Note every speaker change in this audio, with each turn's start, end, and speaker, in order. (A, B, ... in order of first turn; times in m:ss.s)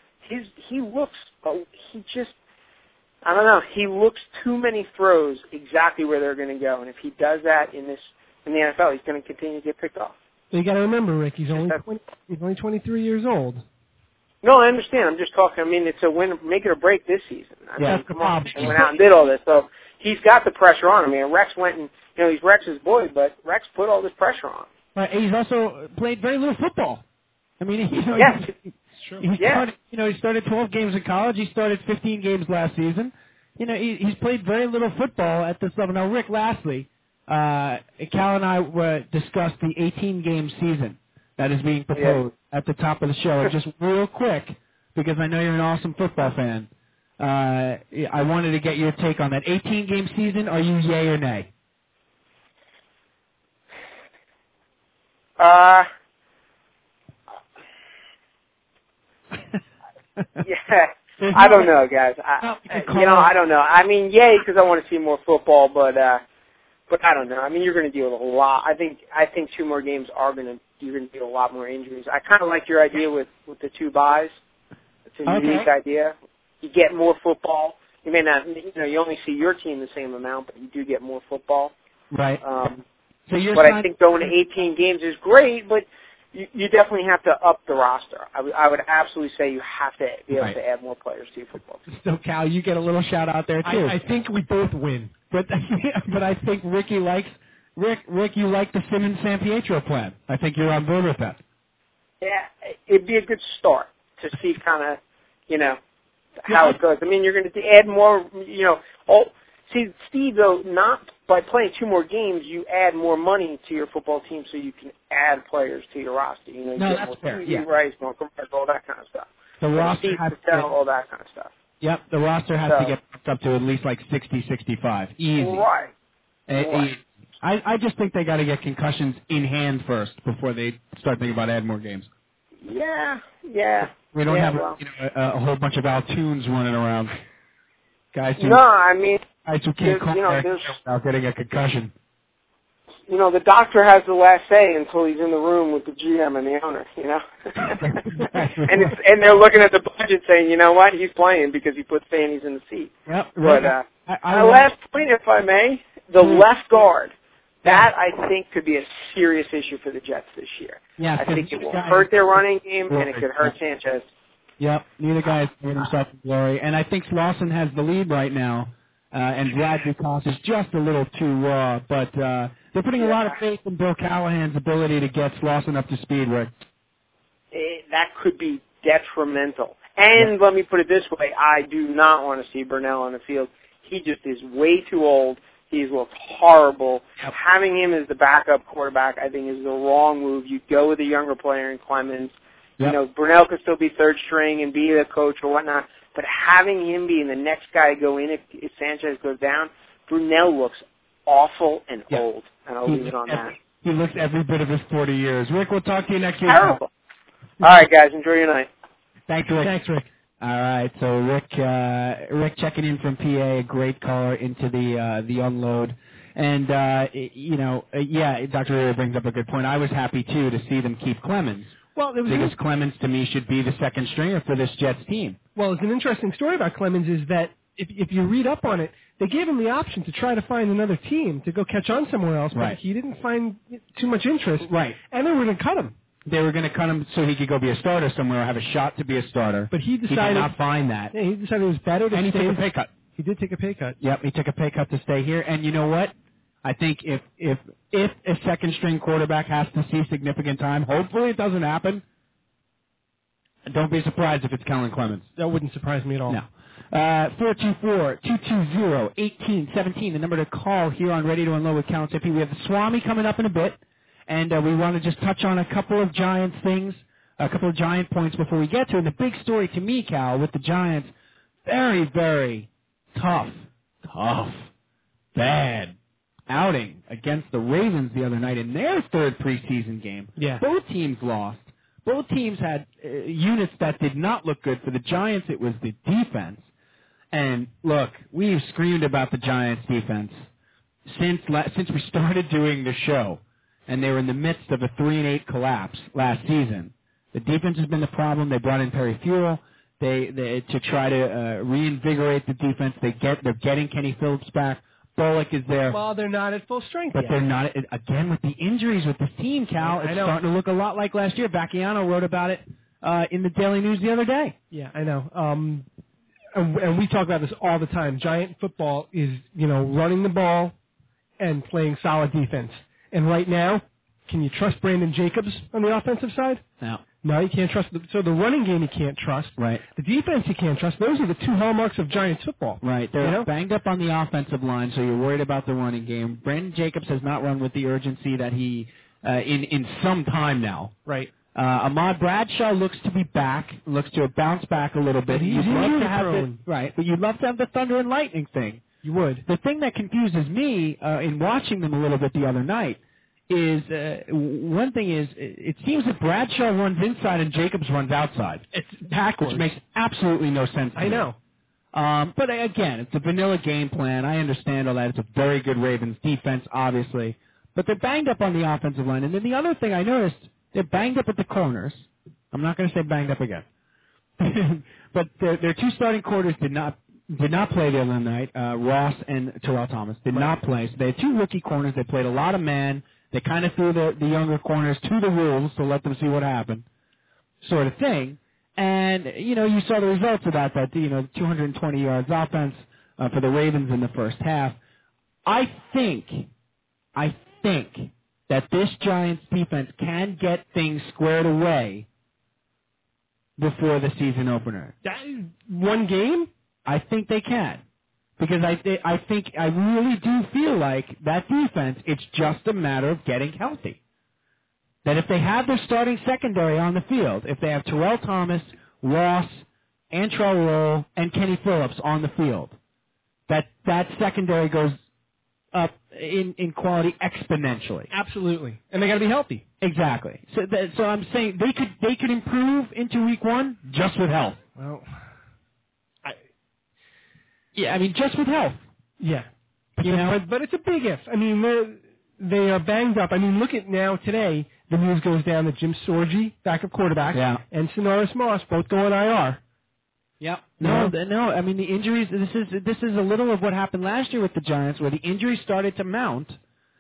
0:00.2-0:02.3 A
0:03.2-0:10.1 A
0:10.5-0:13.6 B
0:11.5-0:11.8 A
0:14.4-0:24.7 A
0:17.8-0:18.9 C
0:24.9-0:27.0 C
0:27.6-0:51.5 C
0:28.2-0:28.5 A
0:29.4-0:29.7 A
0:41.9-0:42.2 A
0:55.4-0:55.9 A
1:00.4-1:06.2 A
1:01.2-1:01.7 C
1:02.4-1:03.3 C
1:06.9-1:14.3 A
1:15.1-1:21.7 A
1:15.3-1:15.7 C
1:22.1-1:22.4 C
1:22.4-1:22.8 A
1:23.3-1:23.9 C
1:23.6-1:31.8 A
1:31.9-1:34.0 C
1:33.6-1:35.1 B
1:35.3-1:41.4 C
1:42.2-1:45.8 A
1:46.4-2:01.5 A
1:46.5-1:46.8 C
1:56.8-1:57.6 C
1:59.6-2:00.7 C
2:01.8-2:05.6 C
2:02.6-2:02.9 A
2:05.4-2:05.9 A
2:06.5-2:12.1 C
2:06.5-2:07.0 A
2:12.6-2:14.8 A
2:13.9-2:17.1 C
2:18.1-2:18.6 C
2:18.4-2:19.2 A
2:19.4-2:21.9 C
2:19.8-2:20.8 A
2:23.1-2:37.1 A
2:27.6-2:28.9 C
2:33.1-2:34.6 C
2:36.2-2:36.4 C
2:37.6-2:44.0 A
2:41.0-2:42.1 C
2:42.9-2:43.5 C
2:44.6-2:56.5 C
2:53.0-2:53.4 A
2:57.5-3:23.6 A
3:22.8-3:26.8 C
3:26.4-3:26.9 A
3:27.6-3:28.7 A
3:29.3-3:29.7 C
3:29.6-3:30.1 B
3:30.4-3:45.4 C
3:41.9-3:42.6 B
3:45.6-3:55.9 B
3:52.5-3:52.8 C
3:54.6-3:55.0 C
3:56.2-4:01.1 C
3:59.7-4:00.5 B
4:01.1-4:02.6 B
4:02.1-4:02.9 C
4:03.2-4:04.0 B
4:04.0-4:12.0 C
4:13.6-4:15.3 C
4:15.4-4:16.4 B
4:16.3-4:31.1 C
4:31.6-4:34.7 C
4:35.3-4:36.0 C
4:36.5-4:46.6 C
4:40.4-4:40.6 B
4:47.3-4:50.4 C
4:51.0-5:06.0 C
5:05.9-5:07.4 B
5:07.1-5:14.6 C
5:09.8-5:10.4 B
5:14.7-5:15.8 B
5:16.6-5:20.7 B
5:21.4-5:26.6 B
5:27.2-5:33.5 B
5:29.6-5:29.8 C
5:32.8-5:40.9 C
5:41.0-5:41.3 B
5:41.5-5:48.8 C
5:45.3-5:46.6 B
5:49.0-5:49.4 B
5:49.4-5:58.6 C
5:58.7-5:59.7 B
5:59.4-6:01.3 C
6:01.0-6:01.4 B
6:01.9-6:13.6 C
6:14.4-6:26.8 C
6:20.3-6:20.6 B
6:27.6-6:34.8 C
6:35.4-6:36.5 C
6:37.1-6:42.1 C
6:43.6-6:44.9 C
6:45.0-6:46.5 B
6:46.8-6:47.8 C
6:48.4-6:54.0 C
6:55.0-7:02.8 C
7:03.5-7:05.0 C
7:05.7-7:08.1 C
7:08.1-7:09.6 B
7:09.8-7:14.6 C
7:14.8-7:15.1 B
7:17.7-7:18.8 C
7:19.2-7:29.6 B
7:20.0-7:20.4 C
7:27.3-7:27.6 C
7:30.4-7:36.6 C
7:30.8-7:31.1 B